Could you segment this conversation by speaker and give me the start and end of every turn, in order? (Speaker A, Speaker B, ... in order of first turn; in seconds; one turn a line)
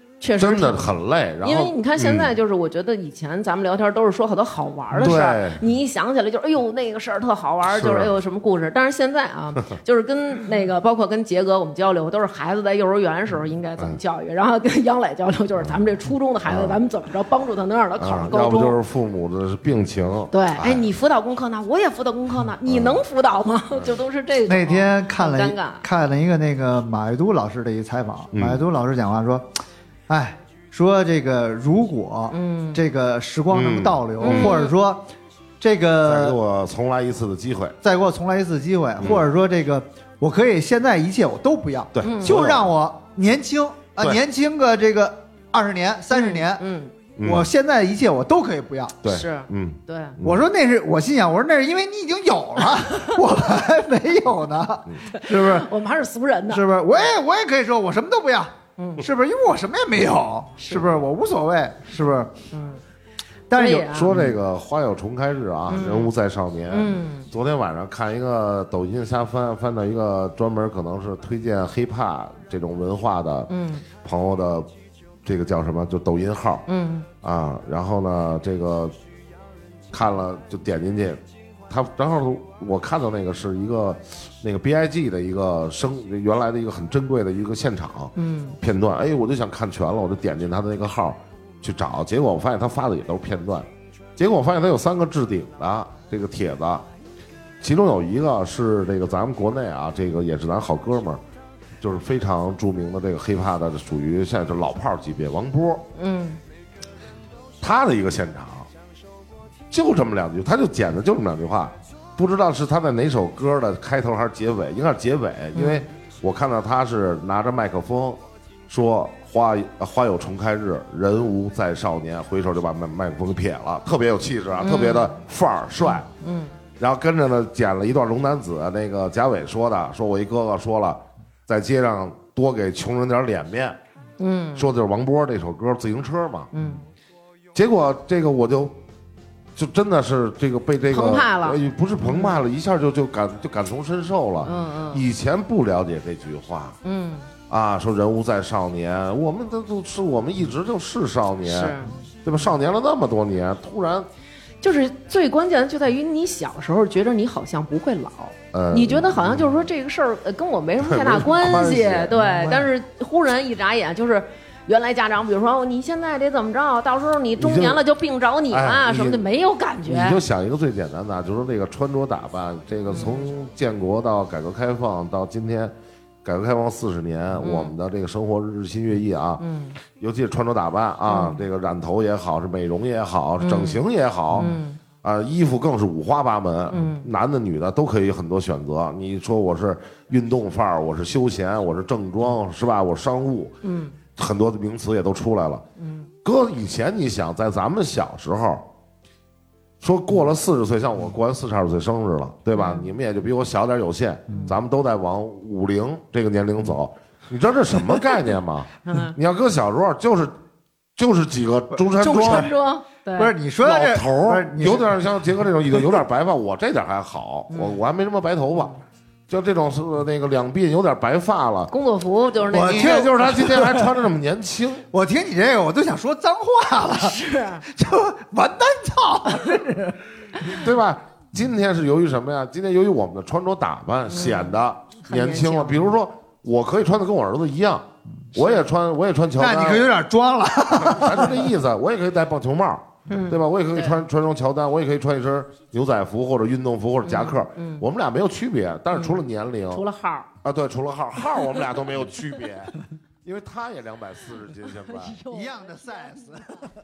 Speaker A: 0.2-18.8
Speaker B: 0.4-2.3
Speaker B: 4.9-5.6
Speaker B: 7.7-8.1
Speaker B: 16.4-16.8
Speaker B: 18.0-20.9
Speaker A: 20.3-25.9
Speaker B: 22.6-23.0
Speaker C: 24.5-29.5
Speaker B: 28.3-28.6
Speaker C: 30.1-35.0
Speaker A: 32.3-32.8
Speaker B: 33.5-34.6
Speaker A: 34.2-34.8
Speaker C: 35.6-36.4
Speaker B: 36.0-37.8
Speaker C: 37.8-46.6
Speaker B: 39.0-39.3
Speaker B: 41.9-42.7
Speaker A: 42.0-42.4
Speaker A: 46.1-46.9
Speaker B: 47.2-47.5
Speaker C: 47.2-49.0
Speaker B: 49.0-50.5
Speaker A: 49.0-50.2
Speaker C: 50.2-55.7
Speaker A: 55.1-56.7
Speaker C: 56.5-62.3
Speaker A: 58.8-59.0
Speaker A: 60.6-60.9
Speaker A: 62.5-62.8
Speaker C: 63.5-64.4
Speaker A: 63.5-64.1
Speaker B: 63.9-73.5
Speaker A: 65.7-66.1
Speaker A: 66.7-67.3
Speaker A: 73.5-73.8
Speaker B: 74.0-74.7
Speaker B: 75.2-76.7
Speaker A: 76.7-77.1
Speaker B: 77.2-79.0
Speaker B: 79.9-96.9
Speaker A: 88.2-88.6
Speaker B: 97.6-101.2
Speaker B: 101.8-105.8
Speaker A: 106.0-106.4
Speaker B: 107.6-108.7
Speaker B: 109.7-126.1
Speaker A: 115.5-115.9
Speaker A: 124.6-125.2
Speaker A: 126.0-126.5
Speaker B: 126.8-133.8
Speaker A: 134.2-134.7
Speaker B: 134.6-136.5
Speaker A: 136.5-136.8
Speaker B: 137.6-138.8
Speaker B: 139.6-146.8
Speaker A: 140.9-142.4
Speaker A: 144.4-145.1
Speaker A: 146.8-147.3
Speaker B: 147.5-154.1
Speaker A: 151.5-151.9
Speaker A: 154.6-170.2
Speaker B: 158.5-159.5
Speaker B: 160.8-162.6
Speaker B: 167.4-167.8
Speaker B: 168.5-169.3
Speaker B: 169.8-179.4
Speaker A: 172.9-173.2
Speaker A: 177.4-177.8
Speaker A: 179.4-179.8
Speaker B: 180.0-193.6
Speaker A: 181.1-181.4
Speaker A: 183.4-183.8
Speaker A: 184.3-184.8
Speaker A: 186.7-187.1
Speaker A: 193.6-194.0
Speaker B: 194.2-195.6
Speaker A: 195.8-196.1
Speaker B: 196.2-198.6
Speaker B: 199.8-210.3
Speaker A: 202.6-202.9
Speaker A: 204.3-204.6
Speaker A: 208.8-209.2
Speaker B: 211.0-212.5
Speaker A: 212.0-213.3
Speaker C: 213.2-214.9
Speaker B: 213.6-218.8
Speaker A: 217.5-217.8
Speaker B: 219.3-221.7
Speaker A: 221.7-223.1
Speaker C: 222.5-224.0
Speaker B: 222.5-224.9
Speaker C: 224.9-230.0
Speaker A: 226.9-227.7
Speaker B: 230.4-239.9
Speaker A: 234.1-236.0
Speaker C: 239.4-241.5
Speaker B: 240.7-249.8
Speaker A: 243.1-244.0
Speaker A: 247.0-247.8
Speaker A: 248.9-250.3
Speaker B: 250.4-255.2
Speaker A: 254.7-256.3
Speaker C: 255.3-256.7